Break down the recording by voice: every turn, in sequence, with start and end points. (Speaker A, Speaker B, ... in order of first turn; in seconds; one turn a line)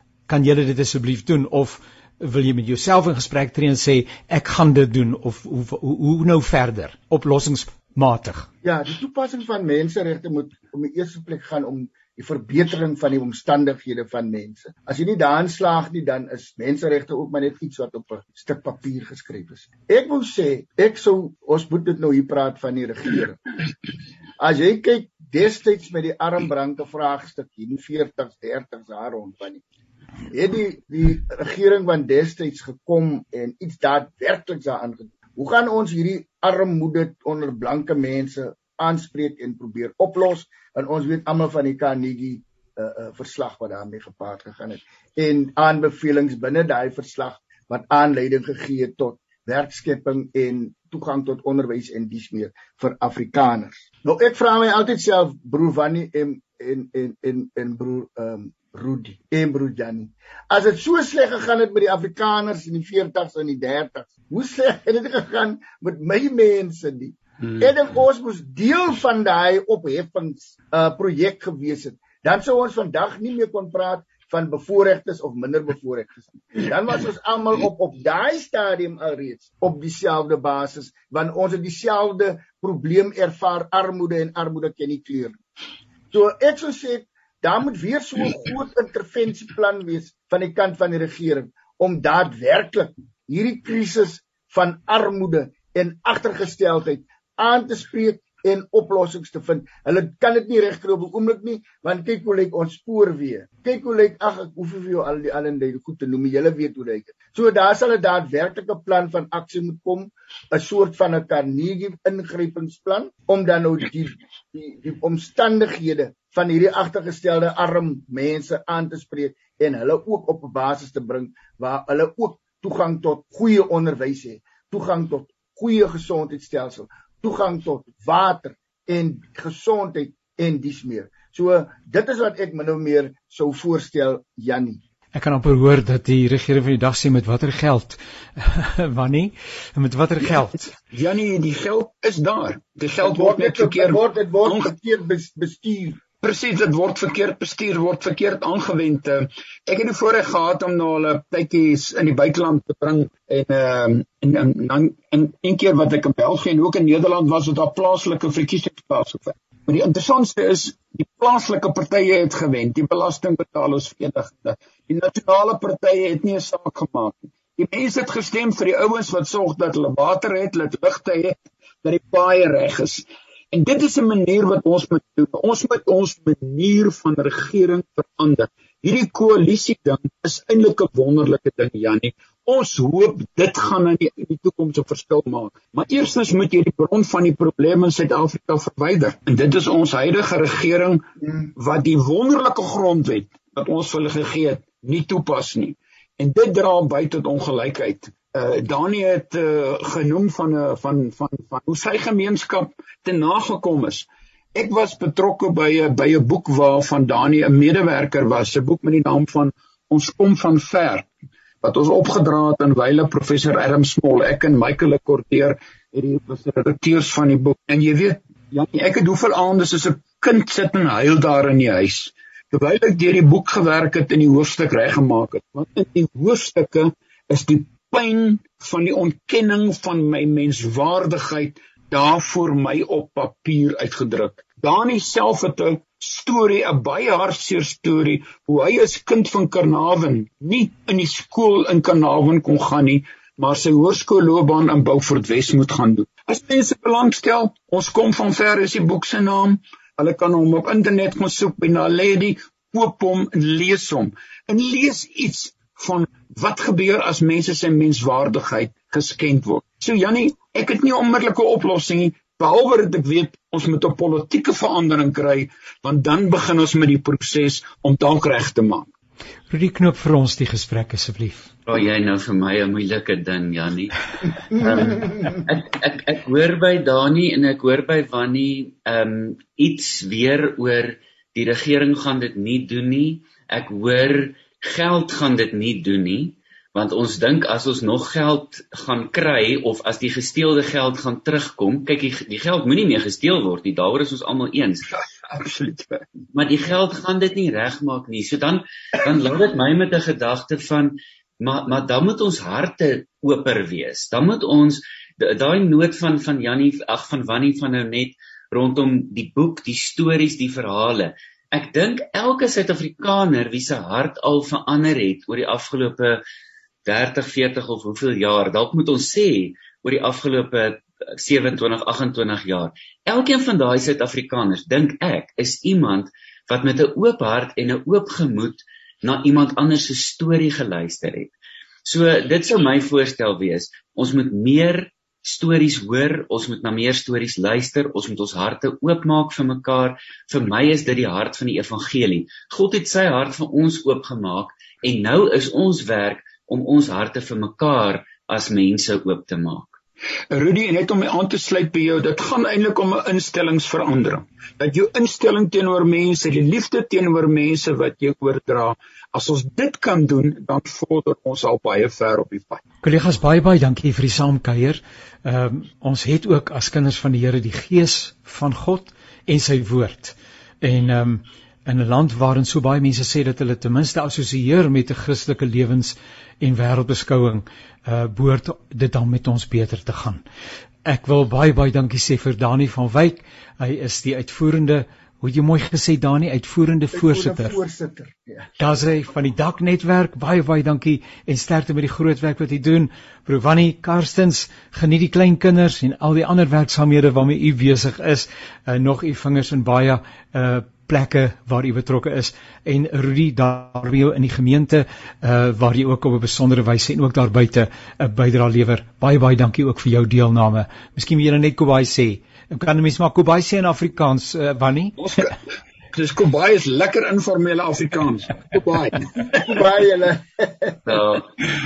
Speaker A: 0.3-8.5
Speaker B: 8.6-23.4
Speaker B: 24.4-29.6
Speaker B: 30.3-85.4
Speaker B: 86.1-134.8
Speaker A: 135.1-140.7
Speaker C: 140.9-144.7
Speaker B: 143.0-146.0
Speaker C: 146.2-211.1
Speaker C: 211.6-268.9
Speaker A: 269.5-271.5
Speaker D: 271.7-294.9
Speaker C: 294.9-296.1
Speaker D: 296.3-316.2
Speaker D: 316.8-331.3
Speaker D: 331.8-349.8
Speaker C: 350.3-362.6
Speaker A: 362.8-380.2
Speaker A: 380.8-387.6
Speaker B: 386.9-388.5
Speaker A: 388.6-415.0
Speaker C: 415.0-415.4
Speaker C: 415.9-419.1
Speaker B: 419.1-420.8
Speaker D: 420.9-421.3